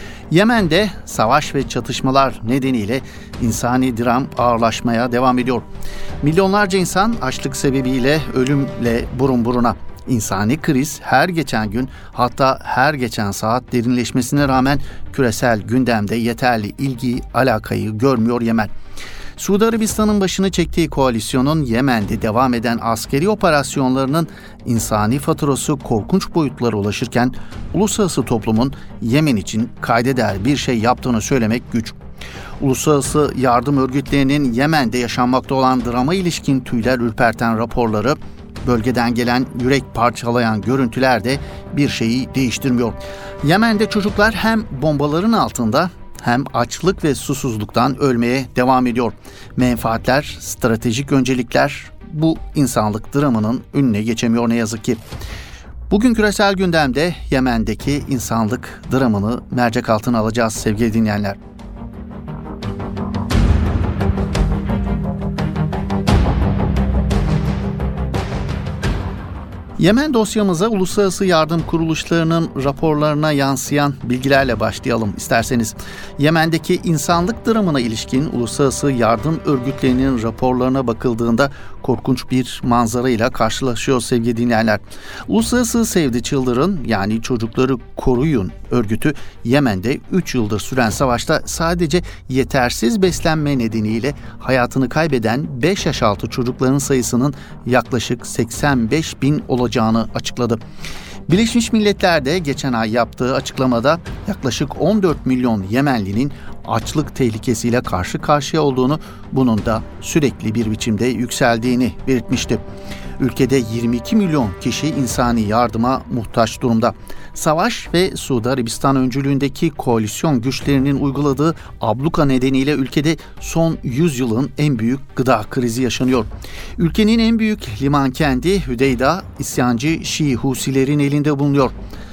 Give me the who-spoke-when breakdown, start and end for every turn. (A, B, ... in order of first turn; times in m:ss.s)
0:00.3-0:05.6 A
0:06.2-0:18.7 A
0:19.4-0:32.0 A
0:32.6-0:55.0 A
0:55.9-1:01.4 A
1:09.8-1:40.6 A
1:41.3-1:52.6 A
1:53.2-2:11.7 A